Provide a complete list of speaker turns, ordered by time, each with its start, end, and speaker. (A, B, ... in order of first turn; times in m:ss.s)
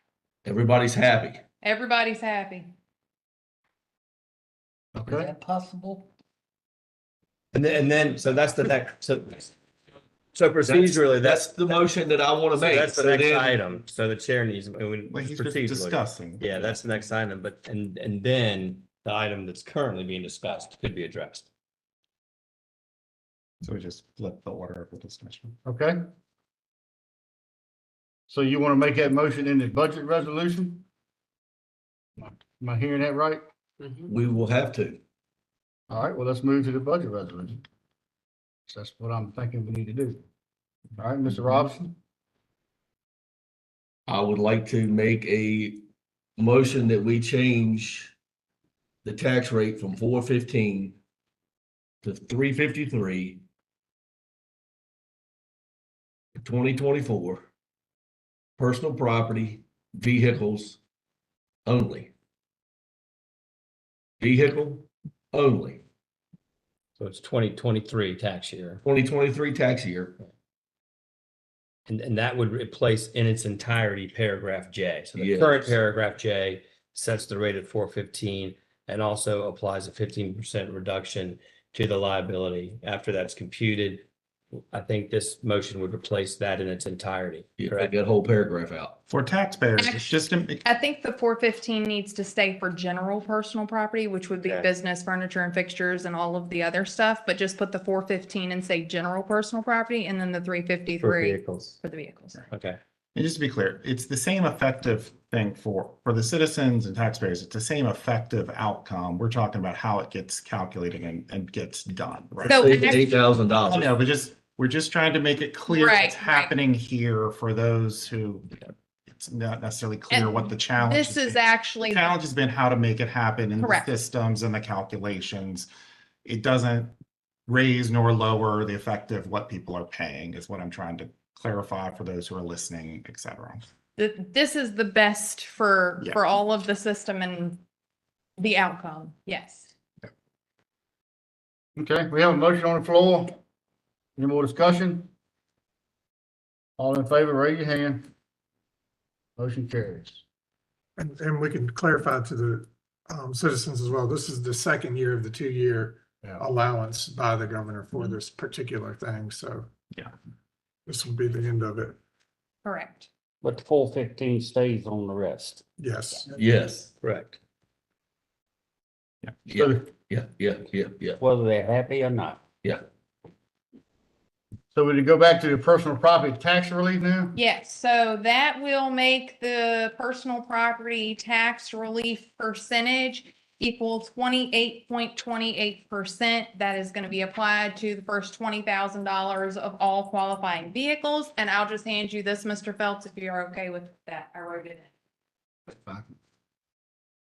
0:00.4-0:01.4 A
0:01.6-0:02.7 B
0:04.9-0:05.3 C
0:05.1-0:06.0 D
0:07.5-0:09.5 E
0:10.3-0:11.7 E
0:10.6-0:13.6 A
0:12.6-0:21.5 E
0:15.1-0:16.8 F
0:23.6-0:25.6 F
0:25.6-0:26.0 C
0:28.3-0:30.8 C
0:32.2-0:33.4 C
0:34.0-0:35.0 A
0:35.9-0:37.6 C
0:38.7-0:40.2 C
0:41.0-0:41.9 C
0:44.1-0:45.8 A
0:46.4-0:48.1 A
0:49.0-0:51.0 A
0:52.0-0:53.4 A
0:56.4-0:57.5 A
0:58.6-1:00.8 A
1:01.6-1:02.1 A
1:04.2-1:05.8 A
1:07.0-1:08.8 E
1:08.8-1:10.2 A
1:11.9-1:24.0 E
1:15.2-1:15.8 A
1:24.7-1:27.9 E
1:27.6-1:29.0 A
1:29.1-1:30.6 F
1:29.8-1:42.3 B
1:41.0-1:41.8 E
1:42.5-1:42.8 E
1:43.1-1:53.1 F
1:52.4-1:53.1 B
1:52.6-1:53.9 A
1:53.7-2:05.7 F
1:55.7-1:56.5 B
2:00.1-2:02.1 B
2:03.6-2:03.9 B
2:06.2-2:06.9 F
2:07.5-2:13.7 F
2:14.0-2:17.6 B
2:16.8-2:17.2 G
2:18.4-2:19.7 B
2:18.4-2:19.5 G
2:21.8-2:23.4 C
2:24.2-2:25.1 C
2:26.8-2:28.1 C
2:29.4-2:30.2 C
2:31.0-2:39.7 G
2:40.9-2:42.0 G
2:42.6-2:43.1 B
2:43.4-2:45.6 D
2:45.8-2:46.3 G
2:46.4-2:46.9 A
2:47.0-2:47.4 E
2:49.4-2:51.2 A
2:49.6-2:49.8 C
2:51.2-2:52.4 D
2:54.7-2:57.4 C
2:57.3-3:14.9 B
3:04.3-3:06.3 G
3:15.7-3:16.1 C